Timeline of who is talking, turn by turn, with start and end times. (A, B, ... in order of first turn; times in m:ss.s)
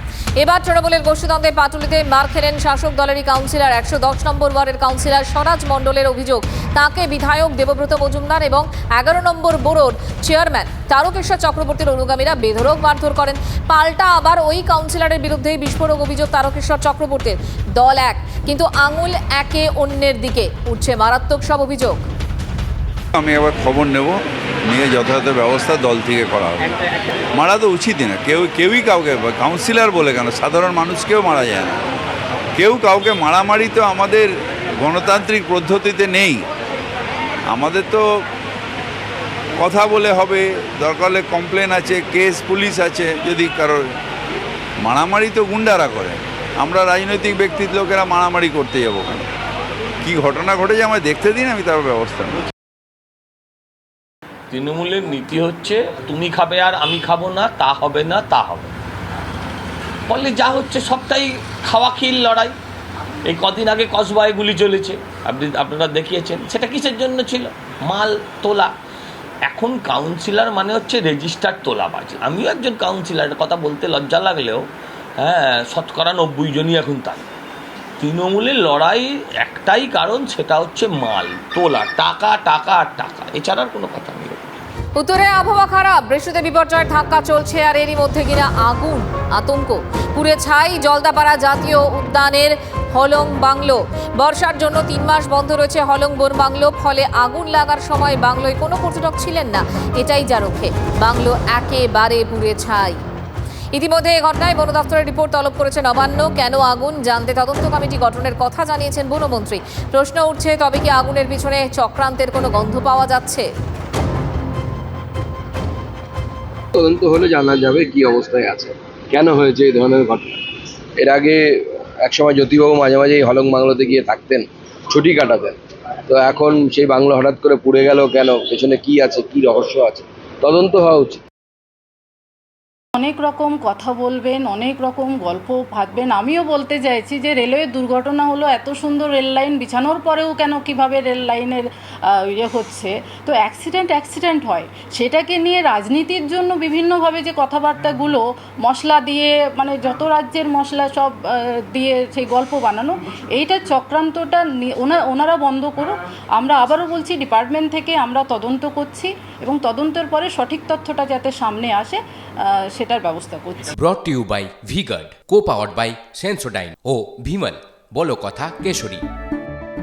0:00.4-0:22.1 A
0:23.1-0:26.7 B
0:27.4-0:31.8 B
0:32.6-0:36.4 B
0:37.5-0:38.0 B
0:39.6-0:43.8 B
0:44.8-0:49.2 B
0:50.0-0:52.4 B
0:54.5-0:58.7 C
1:00.1-1:02.6 C
1:03.3-1:08.7 C
1:09.5-1:14.7 C
1:15.2-1:17.2 C
1:18.0-1:24.4 C
1:25.0-1:43.0 A
1:43.7-1:53.5 A
1:56.8-2:00.4 D
2:01.0-2:11.2 D
2:13.0-2:43.7 E
2:43.7-2:49.0 F